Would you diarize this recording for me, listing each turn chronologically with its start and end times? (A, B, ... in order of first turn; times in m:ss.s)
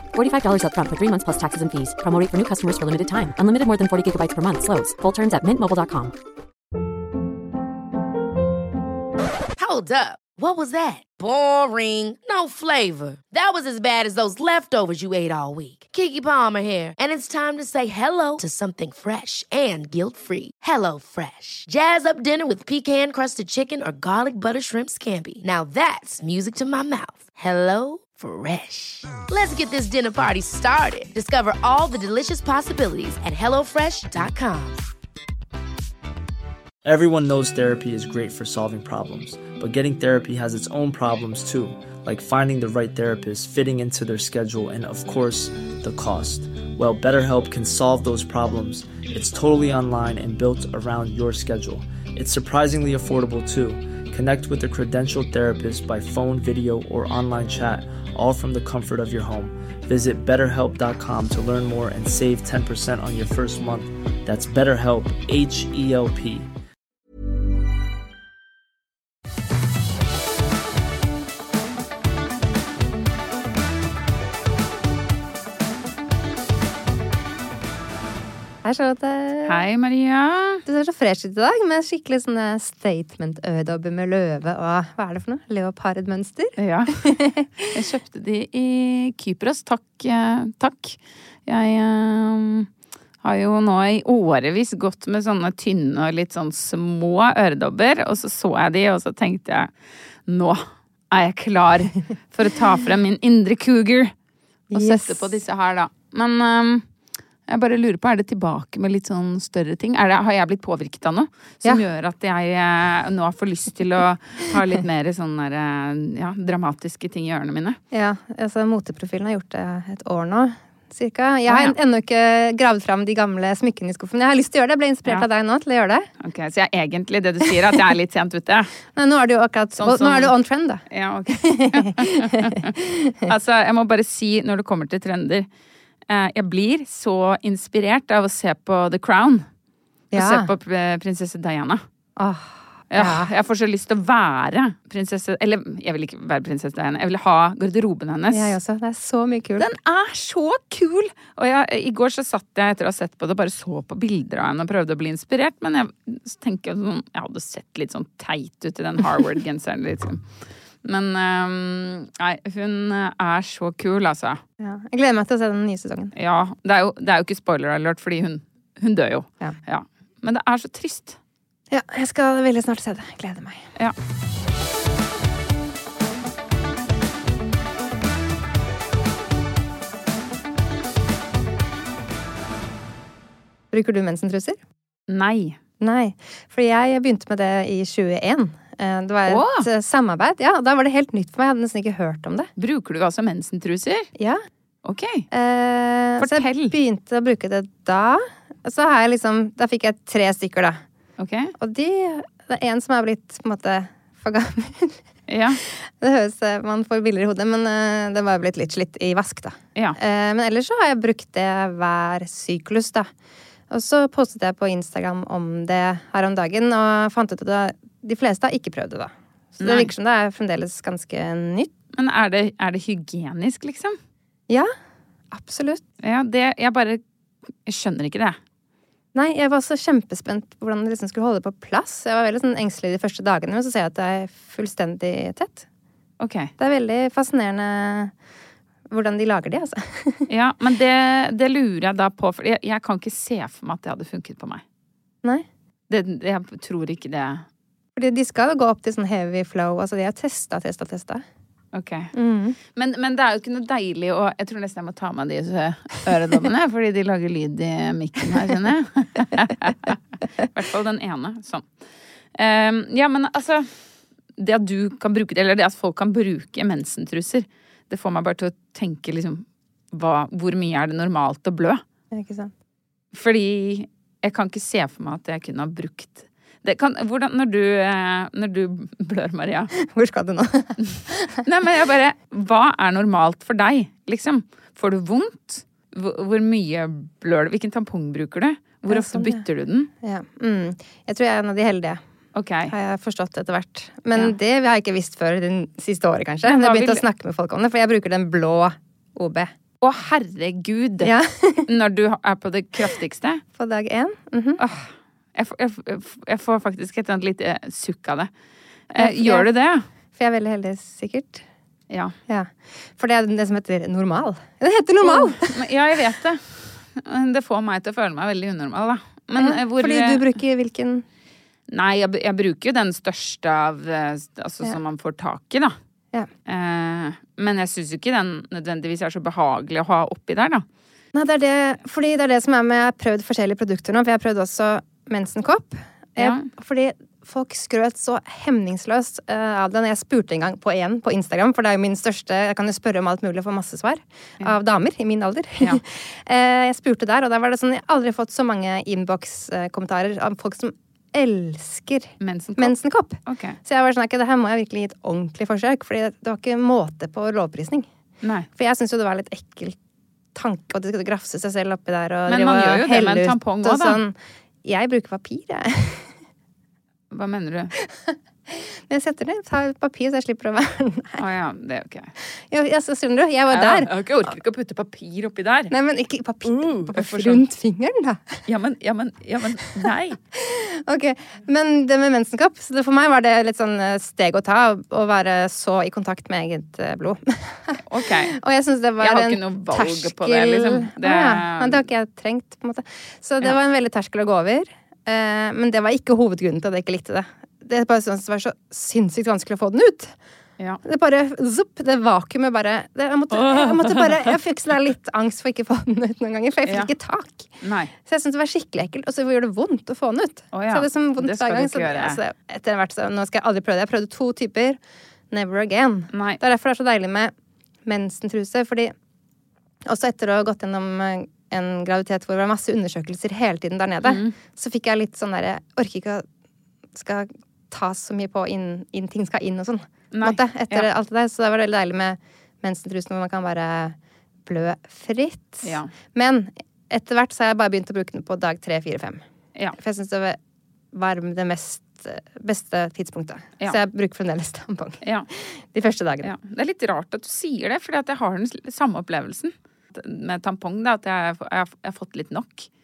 0:00.1-0:06.1 A
0:09.6-0:34.8 B
0:36.8-1:06.5 C
1:18.6-1:19.6 D
1:19.4-1:20.6 E
1:20.7-1:27.5 D
1:26.6-1:27.0 E
1:27.7-1:32.7 E
1:33.2-1:39.7 E
1:40.3-1:44.1 E
1:44.7-1:45.2 D
1:44.7-1:46.8 E
1:47.5-1:57.8 E
1:57.9-2:06.1 D
2:01.5-2:01.8 E
2:06.2-2:08.7 E
2:08.9-2:13.2 D
2:09.8-2:10.3 E
2:10.9-2:12.7 E
2:13.3-2:15.5 E
2:16.1-2:19.4 E
2:20.1-2:20.5 D
2:20.1-2:21.8 E
2:22.2-2:23.3 D
2:22.9-2:28.6 E
2:28.3-2:29.6 D
2:29.6-2:40.2 E
2:40.8-2:44.4 E
2:44.6-2:46.1 D
2:46.1-2:51.2 E
2:51.7-2:53.6 D
3:03.7-3:04.6 D
3:05.1-3:05.6 E
3:05.8-3:12.5 D
3:09.3-3:09.7 E
3:12.6-3:14.1 E
3:14.8-3:15.3 E
3:15.3-3:20.8 D
3:16.2-3:16.7 E
3:21.2-3:21.5 E
3:21.6-3:25.0 D
3:25.3-3:25.6 E
3:26.0-3:33.1 D
3:33.7-3:41.7 D
3:39.6-3:39.9 E
3:41.9-3:44.0 E
3:45.3-3:45.8 D
3:46.0-3:47.0 E
3:47.6-3:48.4 E
3:49.1-3:55.6 D
3:56.2-3:56.5 E
3:56.6-3:58.1 D
3:58.9-4:00.3 D
4:00.3-4:04.6 E
4:05.9-4:07.4 E
4:08.0-4:11.2 D
4:11.7-4:12.1 E
4:12.1-4:12.6 D
4:12.7-4:20.0 E
4:20.5-4:21.7 E
4:22.3-4:23.7 E
4:24.4-4:31.8 E
4:32.1-4:32.5 D
4:33.1-4:39.7 E
4:39.8-4:40.8 D
4:41.4-4:49.9 E
4:48.9-4:49.4 D
4:50.0-4:52.0 D
4:52.3-4:52.7 E
4:52.7-4:59.5 D
4:56.4-4:57.0 E
4:59.8-5:01.1 E
5:01.0-5:01.7 D
5:01.7-5:03.4 E
5:03.6-5:04.6 D
5:04.6-5:08.3 E
5:08.9-5:09.8 E
5:09.0-5:09.5 D
5:10.2-5:11.4 D
5:12.3-5:15.5 D
5:15.0-5:20.2 E
5:19.3-5:21.0 D
5:21.7-5:25.8 E
5:26.5-5:30.6 E
5:31.1-5:57.9 D
5:36.2-5:36.4 E
5:52.2-5:53.6 E
5:58.2-5:58.5 E
5:58.6-5:59.8 D
6:00.3-6:06.1 D
6:02.3-6:04.0 E
6:07.1-6:07.7 E
6:07.8-6:11.2 D
6:11.2-6:12.1 E
6:12.5-6:13.9 D
6:13.5-6:15.7 E
6:15.7-6:18.4 D
6:16.4-6:17.4 E
6:18.5-6:20.2 E
6:19.8-6:40.1 D
6:27.9-6:28.4 E
6:29.0-6:31.8 E
6:40.8-6:47.5 D
6:43.3-6:44.4 E
6:46.6-6:46.9 E
6:47.6-6:47.9 E
6:48.0-6:54.8 D
6:50.5-6:52.2 E
6:55.3-6:57.3 D
6:56.1-6:56.4 E
6:57.8-6:58.9 D
6:59.8-7:06.2 D
7:04.0-7:04.3 E
7:06.9-7:19.2 D
7:10.1-7:10.9 E
7:15.6-7:15.9 E
7:19.8-7:20.4 D
7:20.9-7:26.3 D
7:25.0-7:25.3 E
7:26.2-7:32.7 E